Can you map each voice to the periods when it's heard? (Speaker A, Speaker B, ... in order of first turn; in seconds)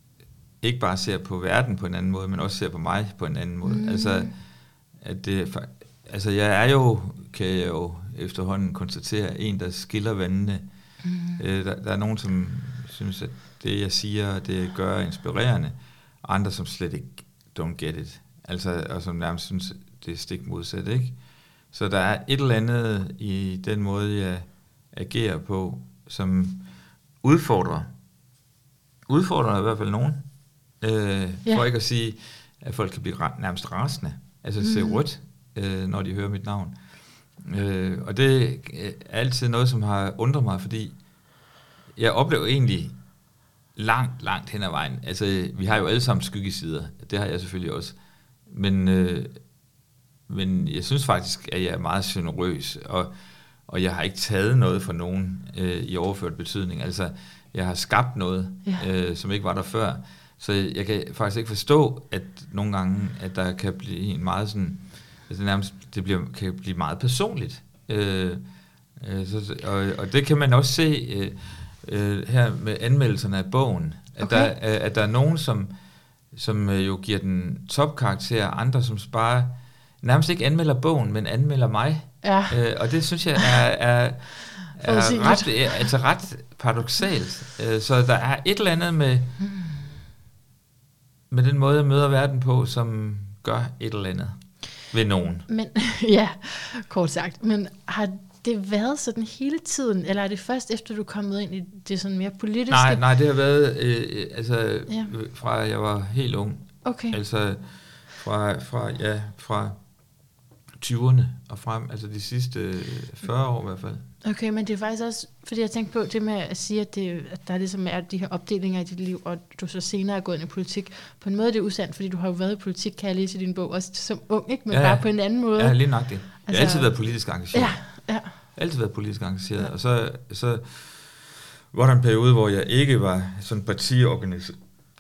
Speaker A: 0.6-10.7, 11.3-26.7, 27.2-27.9, 29.1-41.0, 42.0-43.0, 43.8-49.4, 50.3-53.1, 53.7-68.4, 69.0-75.7, 76.3-89.3, 91.3-95.5, 102.7-109.9, 110.8-114.0, 124.7-134.6
Speaker B: 3.7-4.3, 11.0-11.4, 34.6-35.0, 74.2-74.5, 82.2-82.6, 84.7-85.9, 89.4-89.9, 95.5-103.0, 106.8-107.2, 114.2-128.4